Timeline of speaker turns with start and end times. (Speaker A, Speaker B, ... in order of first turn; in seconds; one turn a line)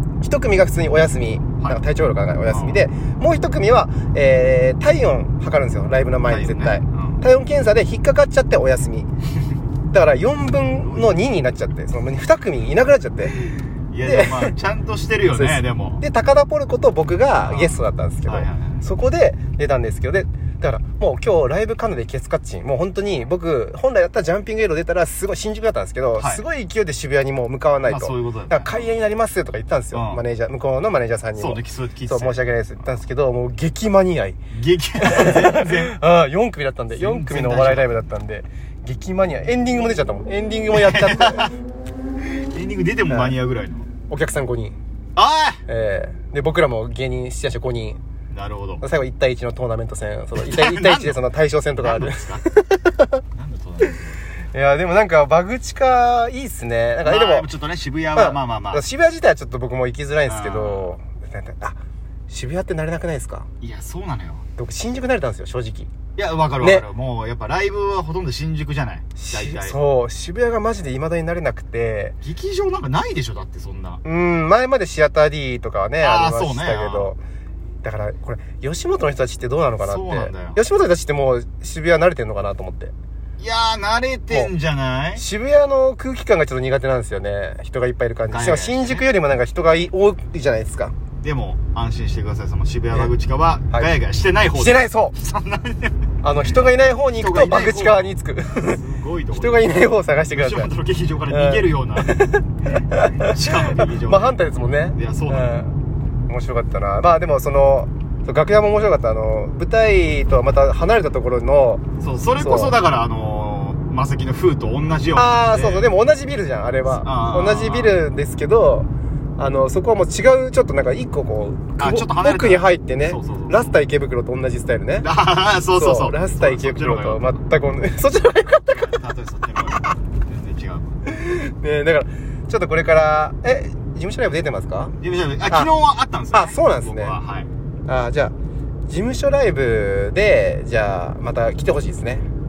Speaker A: 0.2-9.1
Speaker B: 2.5-2.8
Speaker B: 6.2-7.2
Speaker A: 9.9-14.5
Speaker B: 10.8-11.1
Speaker B: 13.9-16.0
Speaker A: 15.3-34.4
Speaker B: 17.4-18.8
Speaker B: 26.2-26.4
Speaker B: 27.8-28.9
Speaker B: 29.9-30.2
Speaker B: 31.4-32.4
Speaker B: 34.5-36.0
Speaker A: 35.0-41.5
Speaker B: 36.9-37.9
Speaker B: 40.7-41.5
Speaker B: 42.3-43.9
Speaker A: 43.1-43.4
Speaker A: 44.1-44.8
Speaker B: 45.1-45.6
Speaker A: 45.7-48.0
Speaker B: 48.3-48.8
Speaker A: 48.8-53.2
Speaker B: 50.3-51.2
Speaker B: 51.8-52.4
Speaker B: 53.3-54.2
Speaker A: 54.5-57.5
Speaker B: 57.0-58.8
Speaker A: 58.1-63.5
Speaker B: 60.3-60.9
Speaker B: 63.6-64.4
Speaker A: 64.6-65.9
Speaker B: 66.2-69.8
Speaker A: 66.6-66.8
Speaker A: 69.2-72.2
Speaker B: 72.2-74.0
Speaker A: 74.0-77.2
Speaker B: 76.0-77.1
Speaker A: 77.8-82.9
Speaker B: 79.8-80.6
Speaker B: 83.4-85.2
Speaker A: 85.2-90.9
Speaker B: 88.3-89.0
Speaker B: 91.2-96.0
Speaker A: 94.5-95.1
Speaker A: 96.2-98.8
Speaker B: 97.1-102.2
Speaker A: 99.3-100.7
Speaker A: 101.3-105.8
Speaker B: 102.9-104.4
Speaker B: 104.9-105.5
Speaker A: 106.3-111.8
Speaker B: 112.0-115.9
Speaker A: 112.4-112.8
Speaker A: 115.1-125.1
Speaker B: 117.0-117.9
Speaker B: 121.8-123.8
Speaker B: 125.0-127.4
Speaker A: 125.7-129.0
Speaker B: 128.7-131.0
Speaker A: 131.0-135.7
Speaker B: 135.0-137.5
Speaker A: 136.3-137.2
Speaker A: 137.9-138.3
Speaker A: 138.9-142.2